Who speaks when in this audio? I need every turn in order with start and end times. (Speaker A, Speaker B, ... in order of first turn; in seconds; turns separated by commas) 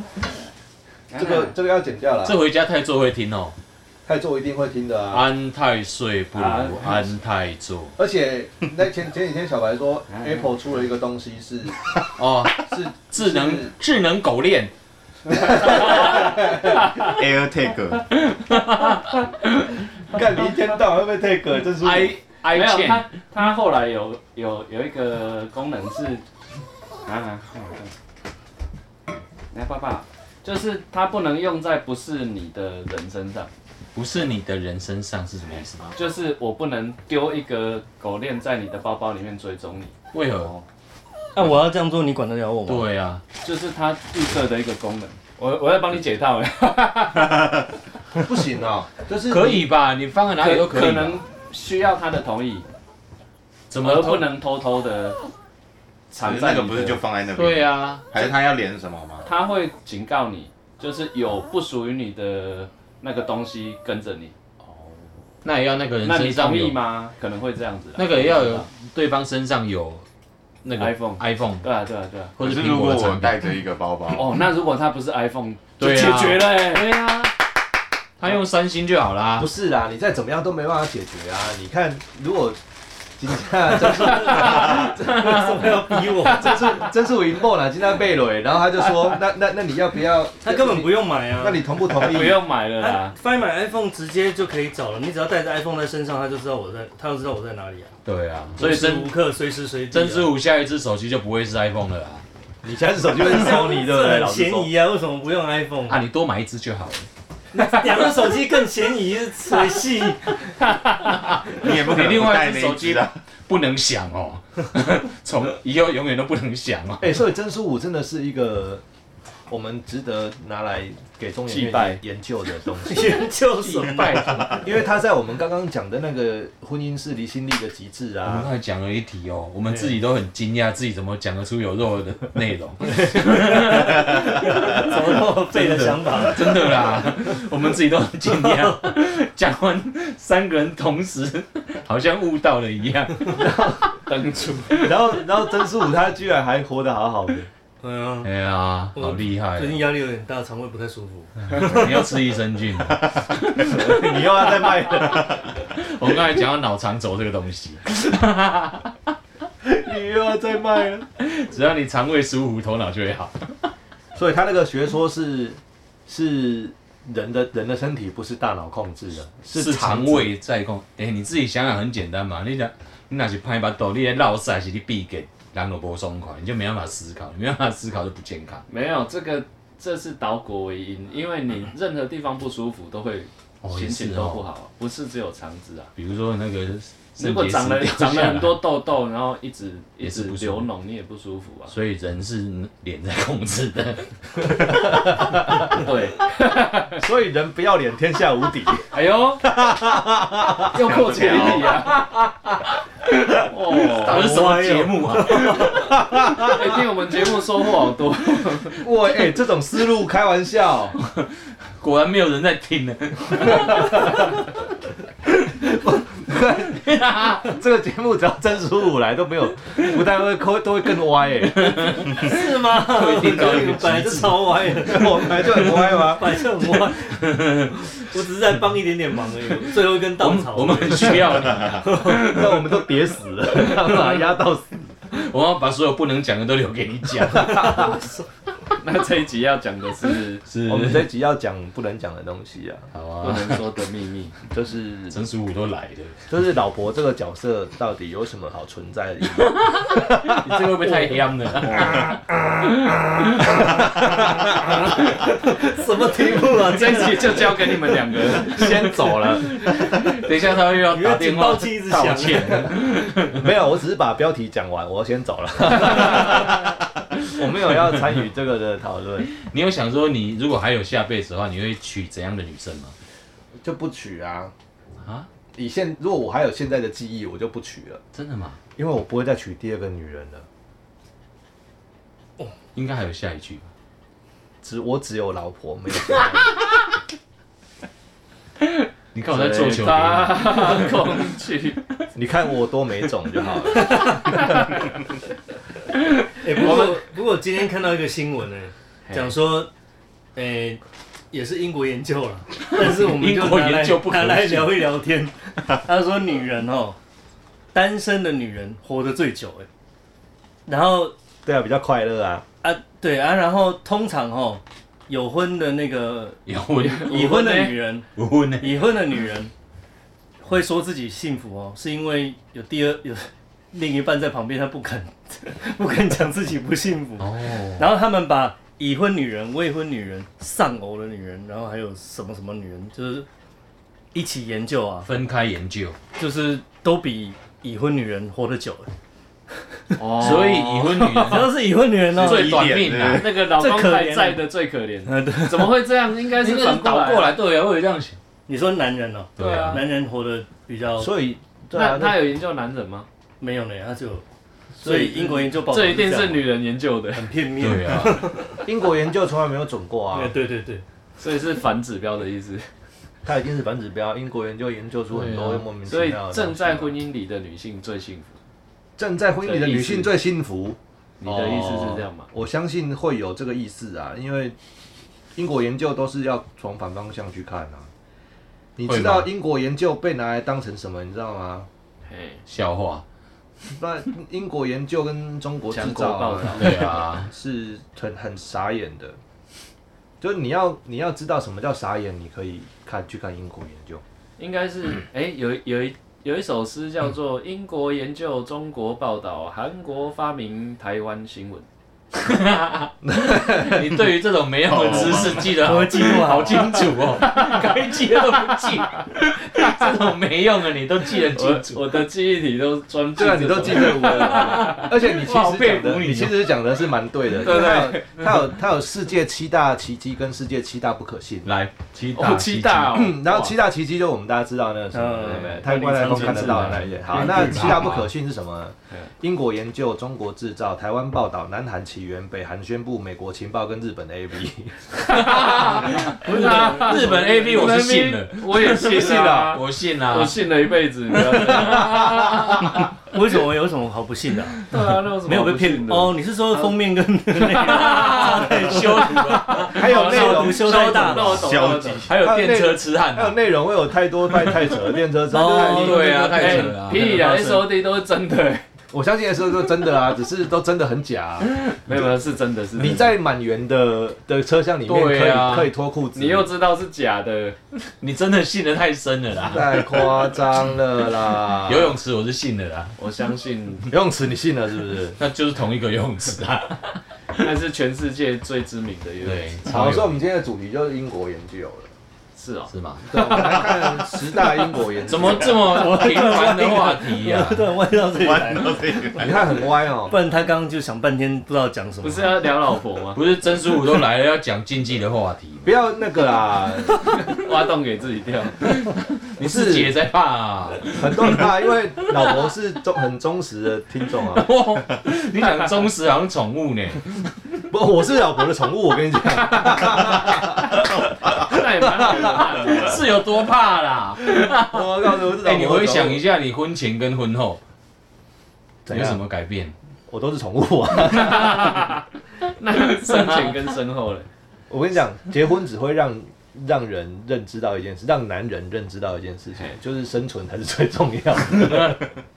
Speaker A: 1.1-1.5, Speaker B: 1.1-2.4, Speaker C: 2.2-3.5, Speaker B: 4.0-5.2, Speaker C: 5.1-7.9, Speaker A: 6.3-7.1, Speaker B: 8.0-11.8, Speaker A: 10.1-10.4, Speaker C: 12.2-14.7, Speaker B: 12.6-13.7, Speaker B: 15.2-16.9, Speaker D: 17.0-18.1, Speaker C: 18.3-19.8, Speaker B: 20.1-22.1, Speaker C: 21.8-23.1, Speaker A: 22.5-26.2, Speaker A: 27.1-27.9, Speaker A: 29.5-33.5, Speaker C: 33.9-35.9, Speaker A: 35.9-40.6, Speaker C: 40.1-40.5, Speaker E: 41.3-42.9, Speaker C: 42.6-43.2, Speaker A: 43.4-47.5, Speaker B: 48.1-49.7, Speaker C: 49.3-51.2, Speaker A: 50.4-52.6, Speaker C: 53.7-54.3, Speaker A: 53.8-55.2, Speaker A: 56.1-57.0, Speaker D: 56.2-59.3, Speaker C: 57.3-58.0, Speaker A: 59.2-64.3, Speaker C: 65.4-66.8, Speaker A: 66.0-68.7, Speaker C: 68.0-70.0, Speaker C: 70.6-71.6, Speaker A: 70.8-72.3, Speaker C: 72.4-73.4, Speaker D: 72.4-74.5, Speaker A: 74.1-77.2, Speaker C: 75.8-77.3, Speaker C: 78.2-79.5, Speaker B: 79.4-82.6, Speaker B: 83.2-84.8, Speaker E: 83.9-86.6, Speaker A: 84.2-84.9, Speaker B: 86.2-92.4, Speaker E: 90.4-91.6, Speaker A: 91.9-93.1, Speaker E: 92.8-97.9, Speaker C: 98.0-99.1, Speaker E: 98.6-100.3, Speaker C: 99.9-102.2, Speaker B: 102.6-104.7, Speaker E: 103.1-106.0, Speaker C: 105.9-107.0, Speaker E: 107.5-110.4, Speaker C: 111.2-117.1, Speaker D: 111.5-113.2, Speaker B: 117.0-118.8, Speaker B: 119.5-123.3, Speaker A: 121.5-122.0, Speaker E: 122.8-124.6, Speaker A: 123.5-124.7, Speaker B: 124.5-128.5, Speaker C: 128.2-143.6, Speaker E: 133.7-136.7, Speaker B: 143.3-143.9, Speaker A: 144.1-144.9, Speaker B: 144.8-147.5, Speaker E: 147.8-148.3, Speaker C: 148.2-149.8, Speaker E: 148.9-151.8, Speaker C: 151.5-153.8, Speaker B: 153.7-155.4, Speaker C: 155.7-158.9, Speaker B: 159.6-161.1, Speaker C: 161.2-163.7, Speaker B: 164.1-170.3, Speaker C: 169.5-178.6, Speaker A: 178.7-185.9, Speaker C: 183.6-184.4, Speaker C: 185.9-188.7, Speaker A: 187.2-191.7, Speaker C: 190.0-190.7, Speaker C: 191.7-195.8, Speaker B: 194.6-195.7, Speaker A: 195.6-197.0, Speaker B: 197.0-198.9, Speaker A: 198.9-199.5, Speaker B: 199.4-200.8, Speaker A: 200.7-202.0, Speaker D: 200.7-201.8, Speaker C: 201.8-202.6, Speaker A: 203.4-204.3, Speaker C: 203.7-205.8, Speaker E: 204.0-205.9, Speaker B: 205.7-206.8, Speaker A: 206.5-208.8, Speaker B: 208.8-211.0, Speaker C: 211.0-214.3, Speaker B: 213.4-214.4, Speaker B: 215.5-222.0, Speaker C: 221.4-225.8, Speaker E: 222.1-231.4, Speaker B: 224.6-226.4, Speaker C: 226.9-227.9, Speaker C: 230.0-232.8, Speaker B: 231.8-234.9, Speaker C: 235.1-238.0, Speaker B: 237.3-238.0, Speaker A: 238.8-240.4, Speaker C: 240.5-241.0, Speaker B: 240.5-242.9, Speaker C: 242.9-243.6, Speaker A: 243.2-244.3, Speaker B: 244.5-245.2, Speaker C: 245.1-246.2, Speaker B: 246.3-251.2, Speaker C: 249.4-252.1, Speaker A: 251.6-252.0, Speaker B: 253.7-254.7, Speaker E: 253.8-257.9, Speaker A: 256.6-258.9, Speaker B: 258.3-259.7, Speaker C: 259.9-263.4, Speaker E: 260.9-262.7, Speaker B: 262.5-269.3, Speaker C: 269.3-272.9, Speaker B: 273.6-274.5, Speaker C: 275.0-275.3, Speaker B: 275.5-278.0, Speaker C: 278.1-278.6, Speaker B: 278.8-280.4, Speaker C: 282.7-283.7, Speaker B: 284.6-286.5, Speaker C: 289.1-291.0, Speaker A: 289.2-291.8, Speaker B: 292.1-294.6, Speaker E: 293.7-294.2, Speaker E: 296.4-299.7, Speaker A: 296.5-297.0, Speaker A: 299.1-299.3, Speaker E: 300.4-307.0, Speaker C: 302.7-304.9, Speaker E: 307.7-309.7, Speaker E: 310.6-311.1, Speaker B: 311.4-312.4, Speaker E: 312.6-316.4, Speaker C: 316.4-317.2, Speaker A: 316.8-317.8, Speaker E: 316.9-318.1, Speaker C: 318.1-318.8, Speaker E: 318.6-319.5, Speaker E: 320.4-333.3, Speaker C: 327.2-327.8, Speaker E: 334.1-335.1, Speaker C: 335.0-336.0, Speaker E: 336.2-338.9, Speaker A: 339.9-341.4, Speaker C: 340.1-341.5, Speaker E: 341.2-342.5, Speaker C: 342.1-343.4, Speaker A: 342.2-347.3, Speaker D: 342.2-343.4, Speaker E: 343.4-344.4, Speaker E: 345.1-345.8, Speaker C: 346.2-348.2, Speaker E: 348.5-351.1, Speaker C: 349.4-349.8, Speaker A: 349.4-349.8, Speaker B: 351.0-352.2, Speaker A: 351.7-353.1, Speaker E: 353.4-354.2, Speaker E: 354.8-356.4, Speaker A: 354.8-357.3, Speaker E: 357.1-358.6, Speaker C: 357.6-358.4, Speaker B: 358.6-360.3, Speaker E: 360.1-360.8, Speaker A: 361.2-362.7, Speaker B: 363.2-366.9, Speaker C: 365.1-365.6, Speaker A: 365.9-368.4, Speaker B: 369.0-374.6, Speaker A: 369.4-370.1, Speaker A: 371.2-372.3, Speaker B: 375.4-377.9, Speaker B: 378.8-381.7, Speaker C: 378.9-379.3, Speaker A: 382.1-382.4, Speaker C: 382.5-383.0, Speaker B: 383.7-389.2, Speaker A: 385.7-386.9, Speaker C: 386.5-387.3, Speaker B: 390.2-394.0, Speaker A: 394.4-401.6, Speaker C: 402.1-412.0, Speaker B: 403.0-404.0, Speaker D: 404.6-405.6, Speaker E: 405.6-406.8, Speaker A: 407.2-408.6, Speaker A: 409.6-409.9, Speaker A: 411.2-414.9, Speaker B: 413.1-421.5, Speaker C: 413.8-416.4, Speaker A: 417.4-418.4, Speaker C: 421.4-423.1, Speaker A: 422.1-423.5, Speaker B: 422.9-435.4, Speaker E: 424.9-427.9, Speaker A: 426.1-426.7, Speaker C: 426.4-428.1, Speaker A: 435.1-442.6, Speaker C: 435.2-440.5, Speaker E: 436.0-437.6, Speaker B: 438.8-439.6, Speaker C: 441.1-442.8, Speaker B: 441.5-442.5, Speaker E: 443.1-444.6, Speaker A: 444.7-446.7, Speaker E: 445.2-451.4, Speaker A: 447.4-452.0, Speaker C: 447.6-451.4, Speaker B: 449.7-450.9, Speaker D: 451.3-452.1, Speaker C: 452.1-453.4, Speaker B: 452.1-456.1, Speaker C: 454.4-454.7, Speaker E: 455.3-457.7, Speaker C: 455.4-457.2, Speaker A: 456.3-458.6, Speaker B: 458.9-461.9, Speaker A: 461.7-463.1, Speaker B: 462.7-466.5, Speaker C: 464.9-465.7, Speaker A: 466.1-467.6, Speaker C: 468.0-470.2, Speaker B: 469.4-472.0, Speaker C: 471.5-472.9, Speaker A: 473.0-473.9, Speaker B: 473.9-475.2, Speaker C: 475.2-477.4, Speaker A: 477.4-479.6, Speaker C: 479.2-480.2, Speaker B: 479.7-481.9, Speaker A: 482.3-484.2, Speaker C: 482.7-483.1, Speaker B: 483.1-485.7, Speaker C: 485.1-487.7, Speaker E: 485.6-489.2, Speaker D: 488.2-489.4, Speaker B: 489.2-490.1, Speaker E: 490.1-492.4, Speaker A: 492.0-493.2, Speaker C: 493.1-495.7, Speaker B: 495.6-497.3, Speaker A: 497.2-498.7, Speaker C: 498.7-502.3, Speaker B: 499.4-499.9, Speaker B: 500.9-504.5, Speaker C: 504.2-507.3, Speaker B: 507.7-510.9, Speaker A: 511.3-513.0, Speaker B: 511.5-512.3, Speaker C: 512.6-517.6, Speaker B: 514.6-516.2, Speaker B: 518.9-519.2, Speaker C: 518.9-519.7, Speaker B: 520.1-521.8, Speaker A: 521.1-524.3, Speaker C: 523.0-523.6, Speaker B: 524.7-532.0